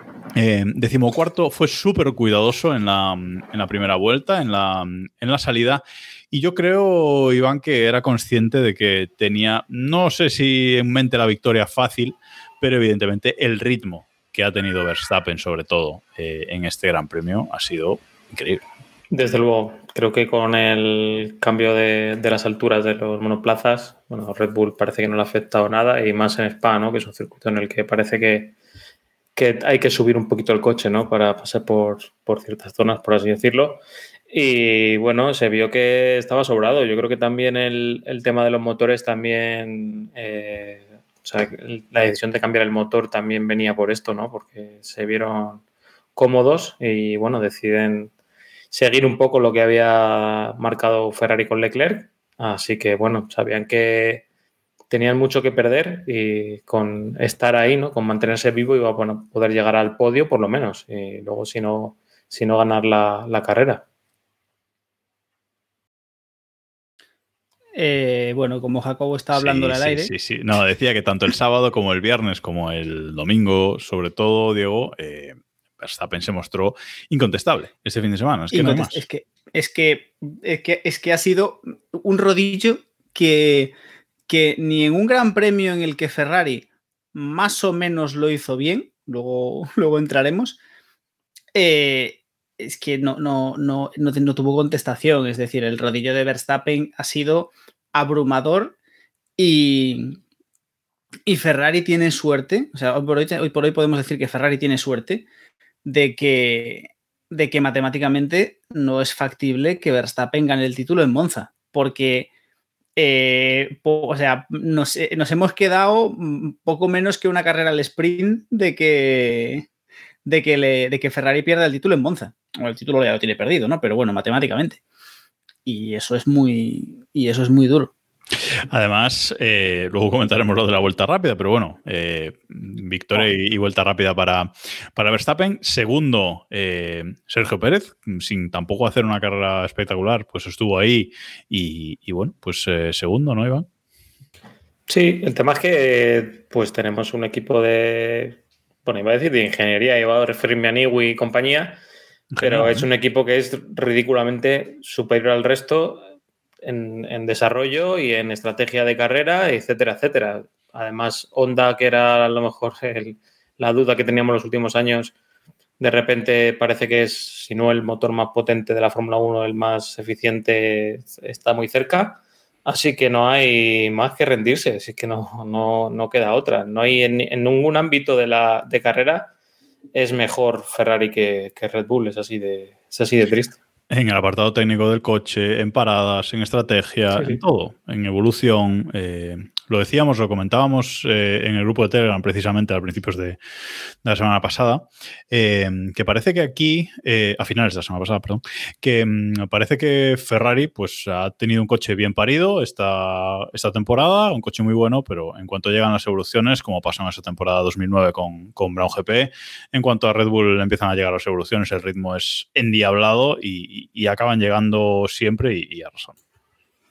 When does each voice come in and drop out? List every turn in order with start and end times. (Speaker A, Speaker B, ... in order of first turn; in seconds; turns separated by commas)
Speaker A: 0.3-18.6, Speaker B: 19.1-28.5, Speaker B: 29.4-45.6, Speaker B: 46.1-48.1, Speaker B: 48.7-54.2, Speaker B: 54.9-63.8, Speaker C: 67.8-70.1, Speaker A: 69.3-79.0, Speaker C: 78.5-83.7, Speaker C: 84.3-90.6, Speaker C: 91.5-98.8, Speaker C: 99.4-100.2, Speaker C: 101.3-105.2, Speaker C: 105.8-112.3, Speaker C: 113.0-119.7, Speaker C: 120.2-124.8, Speaker C: 125.7-127.9, Speaker A: 128.7-143.7, Speaker B: 144.9-151.8, Speaker A: 152.3-152.9, Speaker B: 152.4-156.1, Speaker B: 156.6-165.1, Speaker B: 165.8-179.3, Speaker B: 179.9-183.6, Speaker A: 183.9-193.4, Speaker A: 194.0-216.2